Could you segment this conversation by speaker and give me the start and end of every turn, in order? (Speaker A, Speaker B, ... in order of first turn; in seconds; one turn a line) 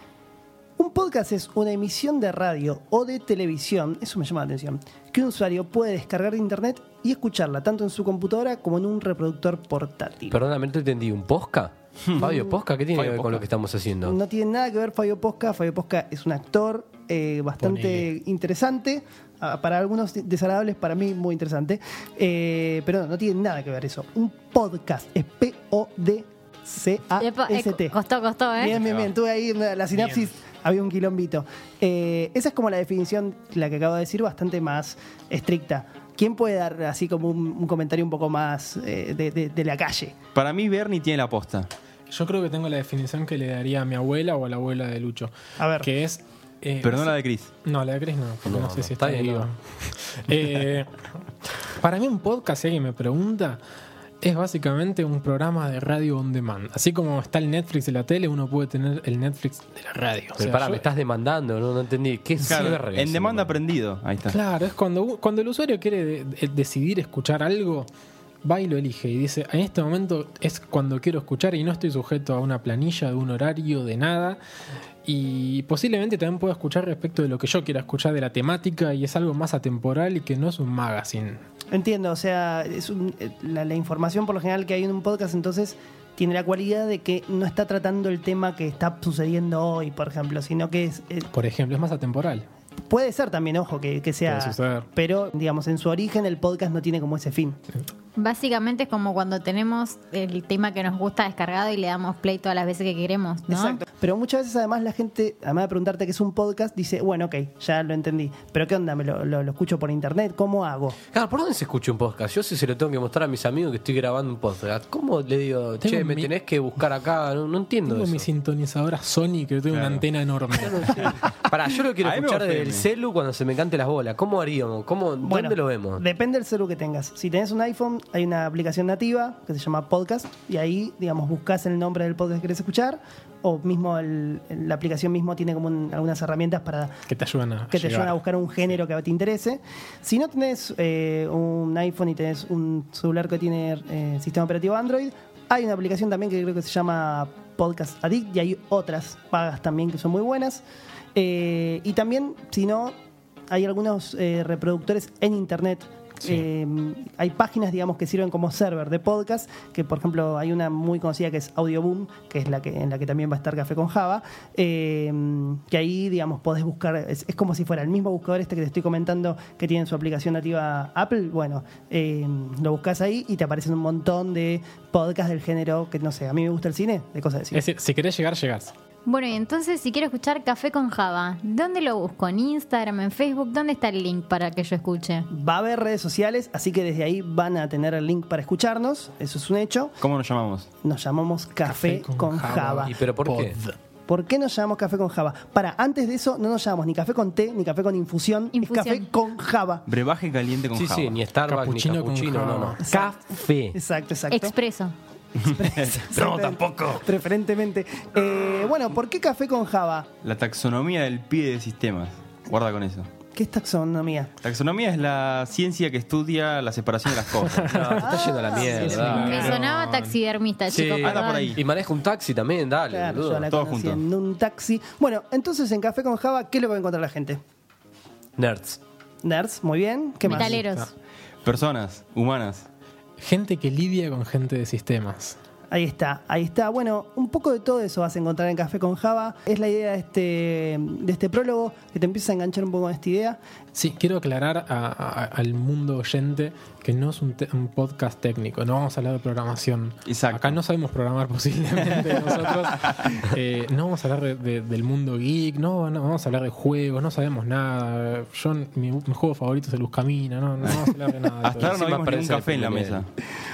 Speaker A: 0.8-10.4
Speaker B: 10.3-14.2
Speaker C: 12.9-13.4
Speaker A: 14.1-28.0
Speaker D: 17.6-18.1
Speaker E: 27.2-28.8
Speaker A: 28.5-40.2
Speaker D: 29.9-30.3
Speaker C: 40.3-41.7
Speaker D: 42.1-51.0
Speaker A: 45.6-45.9
Speaker C: 46.8-47.5
Speaker B: 48.5-49.5
Speaker D: 51.8-53.6
Speaker D: 54.2-60.9
Speaker B: 60.4-63.6
Speaker C: 62.4-64.4
Speaker D: 64.3-67.9
Speaker D: 68.4-74.4
Speaker D: 75.0-81.4
Speaker A: 81.7-91.3
Speaker D: 91.3-92.5
Speaker A: 92.9-97.6
Speaker D: 94.3-94.9
Speaker E: 98.2-103.8
Speaker A: 103.5-111.0
Speaker B: 111.1-118.3
Speaker D: 115.8-116.3
Speaker D: 117.9-120.9
Speaker C: 119.7-120.0
Speaker B: 120.6-126.0
Speaker C: 122.0-122.9
Speaker A: 125.2-137.0
Speaker D: 137.1-138.2
Speaker A: 137.7-150.6
Speaker A: 151.2-152.9
Speaker A: 153.5-177.6
Speaker D: 177.5-178.7
Speaker E: 179.1-185.3
Speaker A: 185.3-190.0
Speaker C: 190.0-190.7
Speaker A: 190.8-193.0
Speaker D: 191.7-193.8
Speaker B: 192.8-193.6
Speaker A: 194.1-199.9
Speaker E: 198.5-199.1
Speaker C: 199.9-201.2
Speaker B: 200.7-203.8
Speaker D: 201.5-202.8
Speaker A: 202.8-203.2
Speaker A: 203.7-204.5
Speaker E: 204.3-204.9
Speaker A: 205.4-210.1
Speaker C: 205.6-207.0
Speaker C: 210.2-213.1
Speaker A: 213.3-214.4
Speaker C: 214.4-218.2
Speaker D: 217.5-220.2
Speaker B: 217.7-219.3
Speaker A: 217.8-219.6
Speaker E: 219.1-221.6
Speaker B: 220.7-223.5
Speaker C: 220.9-221.6
Speaker A: 222.9-227.4
Speaker C: 223.5-224.0
Speaker B: 228.4-228.8
Speaker A: 229.2-230.6
Speaker E: 230.2-230.9
Speaker D: 230.5-230.9
Speaker C: 231.4-232.7
Speaker D: 233.2-235.4
Speaker A: 235.7-243.4
Speaker D: 243.8-261.8
Speaker C: 250.1-250.6
Speaker C: 251.9-253.2
Speaker C: 260.6-263.1
Speaker B: 261.7-263.1